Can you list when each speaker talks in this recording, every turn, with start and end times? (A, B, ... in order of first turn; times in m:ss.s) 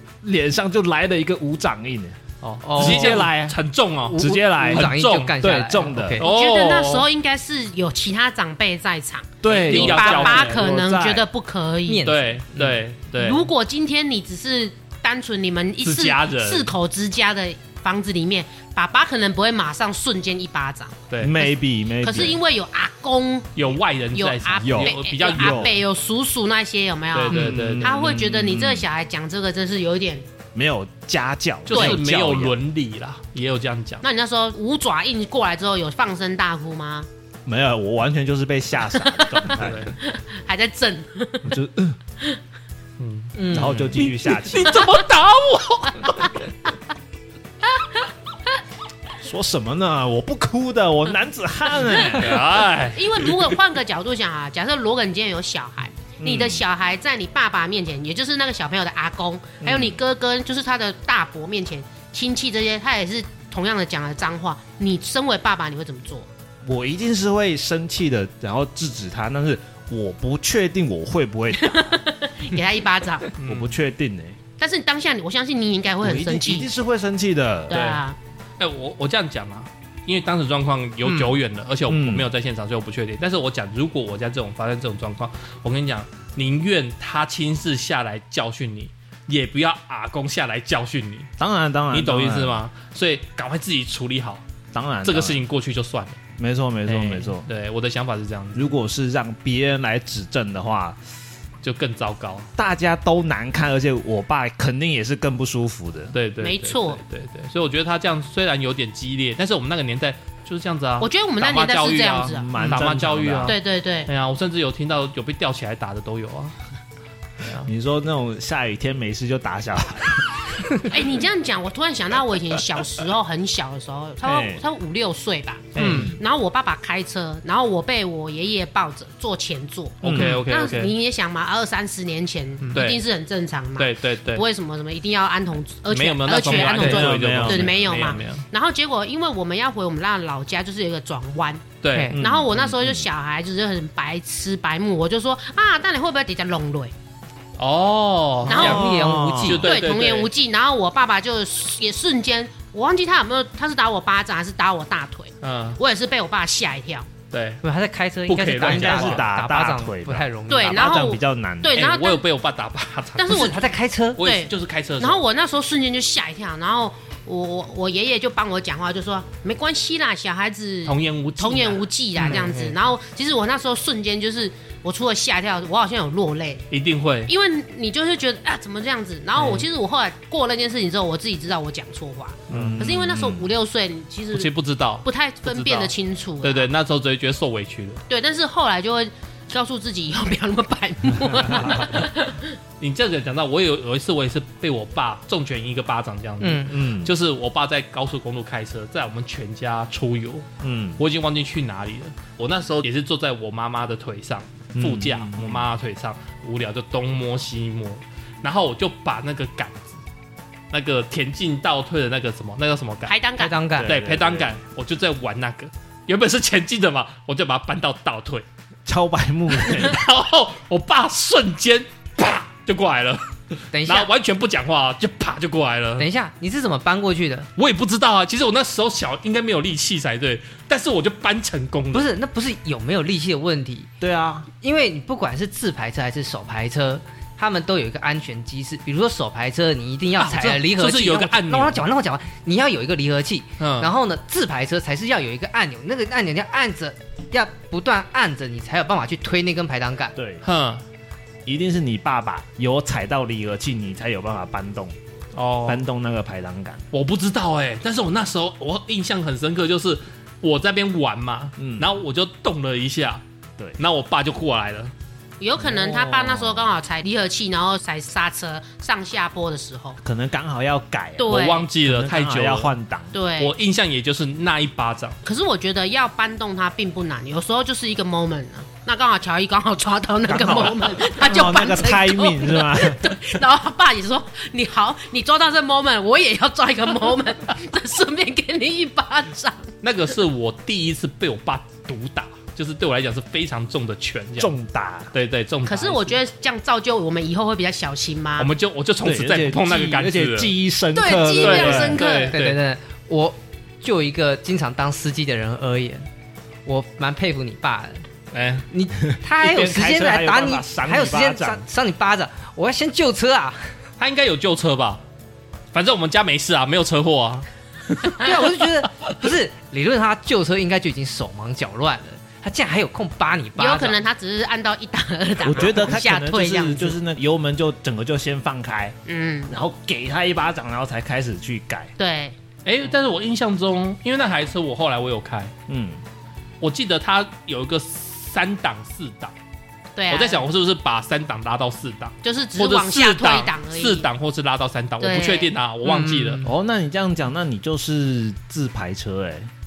0:00.2-0:02.2 A
0:02.4-0:05.3 B
0:02.6-0:03.3 C
0:02.8-0:03.6 A
0:04.0-0:06.3 C
0:04.1-0:06.2 A
0:06.2-0:07.1 B
0:06.2-0:12.0 D
0:09.4-0:11.2 A
0:09.6-0:10.6 B
0:11.8-0:12.8 C
0:12.0-0:13.5 B
0:13.2-0:21.5 D
0:15.8-0:16.7 B
0:21.1-0:21.4 B
0:21.2-0:22.4 A
0:22.0-0:30.3 D
0:23.6-0:25.8 B
0:24.6-0:25.8 A
0:27.1-0:28.1 B
0:27.3-0:27.6 C
0:27.3-0:28.9 A
0:30.5-0:32.6 A
0:31.7-0:34.0 B
0:31.7-0:32.0 D
0:34.0-0:37.1 D
0:37.4-0:39.9 A
0:39.0-0:41.6 D
0:39.5-0:39.9 B
0:41.4-0:42.0 A
0:43.0-0:43.3 B
0:43.3-0:44.0 C
0:43.5-0:44.8 A
0:44.0-0:46.4 B
0:46.0-0:46.3 D
0:49.2-0:52.6 A
0:52.0-0:53.6 B
0:52.9-1:06.3 D
0:56.2-0:56.6 A
0:59.6-1:00.0 A
1:06.6-1:12.0 A
1:11.6-1:13.3 D
1:13.4-1:13.8 B
1:13.4-1:14.4 A
1:14.6-1:16.7 D
1:16.0-1:17.8 A
1:17.7-1:18.2 D
1:17.7-1:18.0 B
1:18.6-1:31.3 B
1:21.0-1:21.3 C
1:21.9-1:22.3 A
1:31.4-1:32.6 A
1:31.9-1:34.4 B
1:34.7-1:35.4 A
1:35.0-1:36.2 B
1:36.4-1:37.5 A
1:36.8-1:38.7 B
1:38.5-1:41.0 A
1:41.6-1:42.5 B
1:42.6-1:46.2 A
1:46.1-1:56.5 B
1:46.4-1:47.0 D
1:51.0-1:52.8 D
1:52.3-1:53.6 A
1:53.4-1:54.1 D
1:57.4-1:57.7 B
1:57.6-2:00.6 A
2:00.9-2:26.9 D
2:04.2-2:04.6 A
2:05.7-2:06.1 B
2:05.7-2:06.2 A
2:05.8-2:06.1 C
2:10.0-2:10.9 B
2:10.0-2:10.4 A
2:12.7-2:13.0 B
2:13.8-2:14.4 B
2:15.9-2:18.4 B
2:16.5-2:18.2 A
2:21.8-2:22.2 B
2:22.1-2:23.1 A
2:27.6-2:28.8 B
2:28.5-2:28.8 D
2:28.5-2:29.7 A
2:28.5-2:29.7 C
2:29.4-2:30.3 B
2:29.6-2:37.1 D
2:35.4-2:35.8 B
2:37.3-2:37.6 B
2:37.6-2:40.9 C
2:38.3-2:39.2 B
2:38.6-2:41.8 A
2:40.5-2:42.2 D
2:41.7-2:43.6 B
2:43.2-2:43.6 D
2:43.3-2:44.2 C
2:44.2-2:45.2 B
2:44.2-2:56.6 D
2:50.8-2:52.8 B
2:56.7-2:57.3 B
2:57.3-3:04.5 D
2:59.4-2:59.7 B
3:02.5-3:02.8 B
3:02.5-3:03.5 A
3:04.3-3:08.0 B
3:05.0-3:06.7 D
3:08.1-3:12.6 D
3:11.5-3:11.8 A
3:12.8-3:20.5 B
3:16.4-3:16.7 C
3:16.7-3:17.1 A
3:20.6-3:21.0 A
3:21.0-3:30.0 B
3:24.7-3:25.7 A
3:30.7-3:33.2 B
3:33.1-3:33.6 D
3:33.4-3:33.9 C
3:33.8-3:34.5 A
3:33.8-3:38.4 B
3:38.8-3:40.0 A
3:39.5-3:46.1 B
3:43.7-3:44.1 C
3:46.0-3:47.5 C
3:47.6-3:52.1 B
3:51.9-3:53.9 C
3:54.0-3:54.5 A
3:54.6-4:10.1 C
4:00.2-4:01.8 B
4:03.6-4:03.9 B
4:10.1-4:10.4 A
4:10.4-4:10.8 B
4:11.4-4:15.0 A
4:15.3-4:15.8 B
4:15.6-4:16.8 A
4:16.9-4:23.2 B
4:21.6-4:21.9 A
4:23.8-4:24.9 B
4:25.4-4:30.0 D
4:25.6-4:26.7 A
4:30.0-4:33.2 A
4:31.2-4:31.7 D
4:31.2-4:32.7 B
4:33.1-4:33.5 D
4:33.4-4:35.2 B
4:35.2-4:49.7 D
4:40.2-4:43.2 A
4:49.8-4:54.5 B
4:54.4-4:55.1 A
4:55.1-4:56.2 B
4:55.6-4:58.5 D
4:58.4-5:00.5 B
4:59.0-5:02.0 A
5:00.9-5:02.4 D
5:01.4-5:02.6 B
5:02.3-5:06.1 C
5:06.6-5:08.0 C
5:08.3-5:08.7 B
5:08.7-5:13.7 C
5:09.2-5:11.6 A
5:14.0-5:15.0 B
5:15.7-5:18.6 B
5:18.2-5:24.0 C
5:23.6-5:27.0 D
5:25.4-5:31.9 A
5:29.0-5:29.5 D
5:32.0-5:32.4 D
5:32.6-5:35.5 B
5:35.7-5:36.0 A
5:36.6-5:39.3 B
5:40.0-5:40.5 D
5:40.1-5:46.4 B
5:42.2-5:44.1 D
5:45.0-5:45.6 D
5:45.8-5:46.5 C
5:46.4-5:49.5 A